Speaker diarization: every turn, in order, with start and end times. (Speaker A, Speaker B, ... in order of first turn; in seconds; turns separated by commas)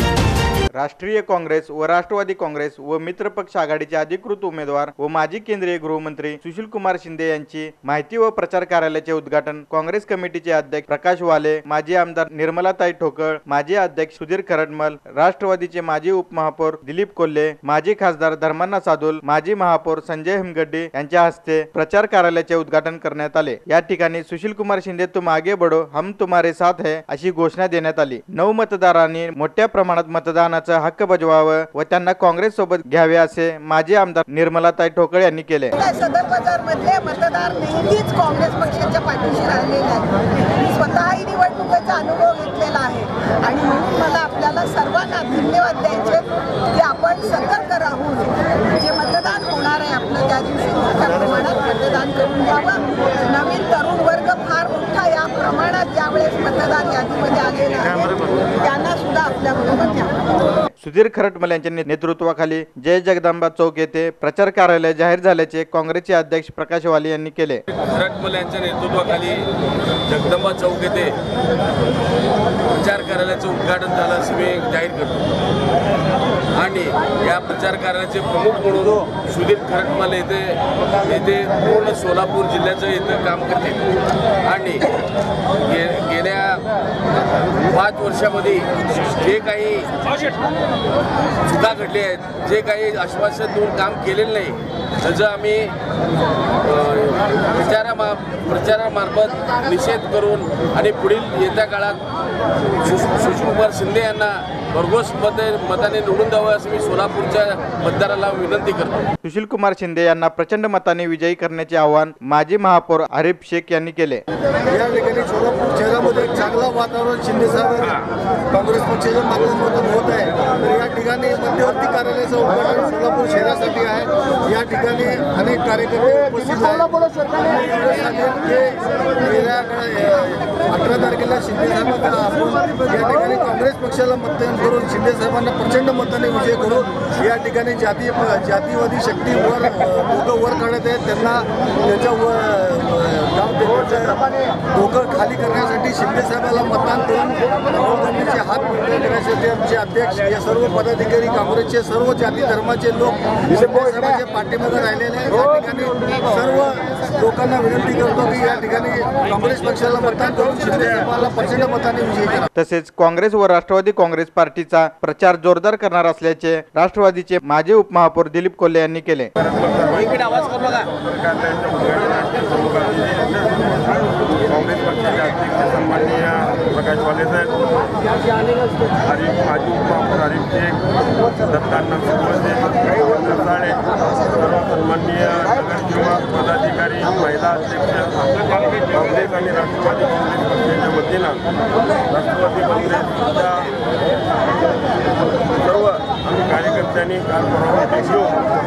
Speaker A: 0.8-35.7, Speaker B: 35.7-60.1, Speaker A: 60.8-67.6, Speaker C: 67.8-69.5, Speaker C: 70.1-71.1, Speaker C: 72.7-75.3, Speaker C: 76.6-83.9, Speaker C: 84.4-85.0, Speaker C: 85.6-86.6, Speaker C: 87.7-90.0, Speaker C: 91.5-95.8, Speaker C: 96.6-102.0, Speaker C: 102.8-109.0, Speaker A: 109.2-114.2, Speaker D: 114.7-162.5, Speaker A: 162.6-169.3, Speaker E: 169.4-170.0, Speaker C: 169.9-170.9, Speaker E: 171.0-173.5, Speaker E: 174.5-177.6, Speaker E: 179.0-180.8, Speaker E: 181.4-191.4, Speaker E: 192.1-193.7, Speaker E: 195.5-198.4